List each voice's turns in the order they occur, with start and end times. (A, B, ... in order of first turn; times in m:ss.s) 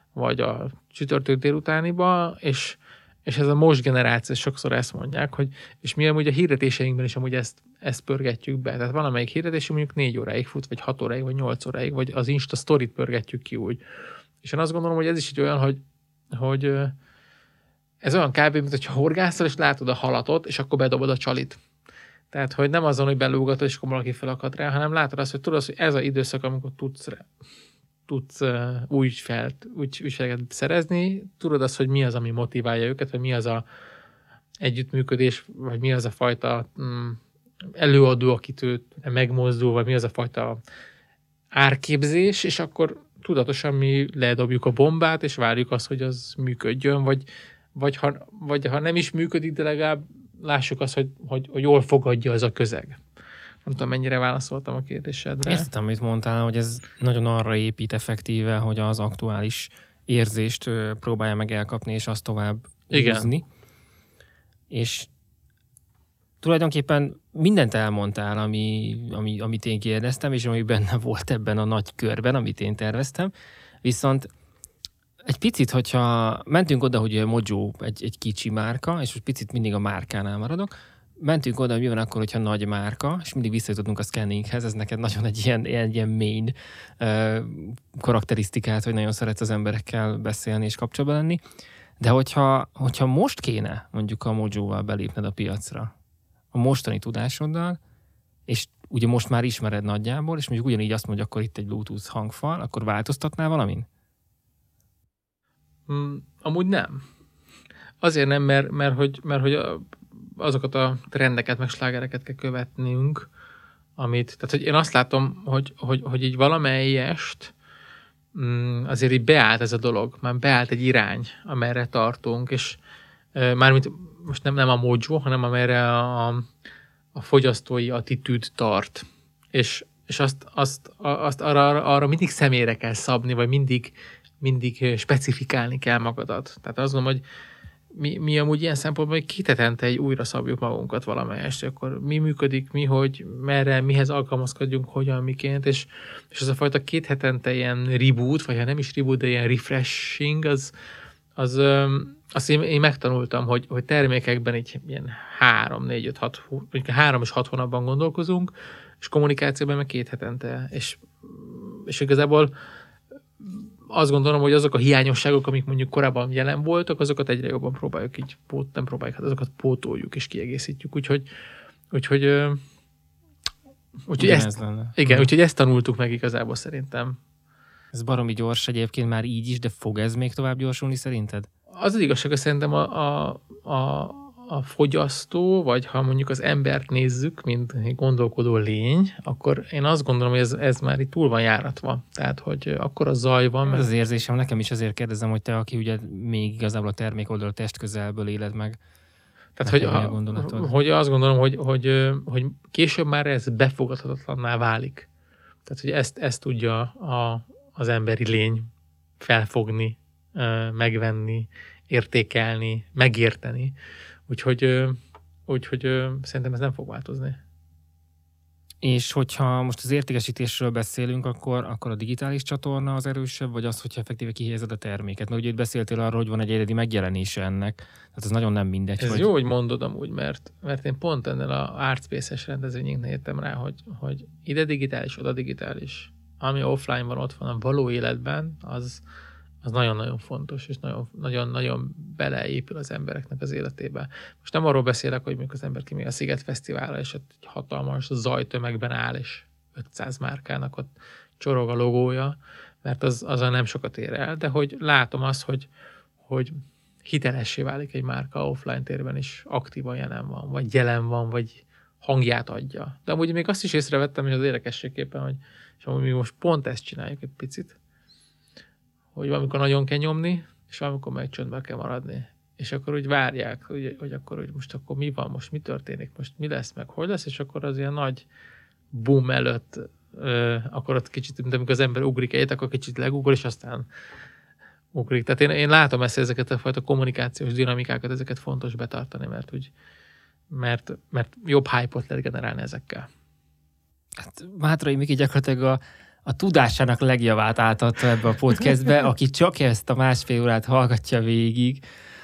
0:00.1-0:13.8 A
0:14.4-0:15.8 A
0:16.3-0:16.9 A
0:18.0-0:21.6 A
0:22.3-0:27.2 A
0:28.1-0:33.6 A
0:34.6-0:37.2 A
0:37.8-0:40.6 A
0:41.5-0:53.0 A
0:53.6-0:55.7 A
0:55.4-1:03.4 B
1:02.9-1:03.3 A
1:04.7-1:05.1 B
1:06.4-1:13.3 B
1:13.8-1:14.3 B
1:15.2-1:31.4 B
1:32.0-1:35.9 B
1:36.5-1:37.8 B
1:38.5-1:43.9 B
1:45.9-1:47.0 A
1:48.0-1:53.3 A
1:54.0-1:57.5 A
1:58.3-2:02.8 A
2:03.3-2:06.5 A
2:07.1-2:17.2 A
2:17.9-2:30.7 A
2:31.4-2:42.5 A
2:43.4-2:51.3 A
2:51.9-2:52.6 A
2:54.1-2:57.2 A
2:54.2-2:55.3 B
2:57.9-3:01.5 B
3:01.8-3:13.9 A
3:13.7-3:18.8 B
3:19.6-3:25.1 A
3:19.6-3:20.7 B
3:25.6-3:28.7 A
3:29.2-3:33.7 A
3:34.3-3:35.0 A
3:35.5-3:37.4 A
3:38.8-3:49.3 B
3:49.0-3:59.0 A
3:59.6-4:15.7 A
4:16.3-4:16.5 A
4:17.0-4:27.8 A
4:29.1-4:38.2 A
4:38.9-4:43.9 A
4:44.9-4:49.7 A
4:50.5-4:53.1 A
4:54.2-5:01.8 B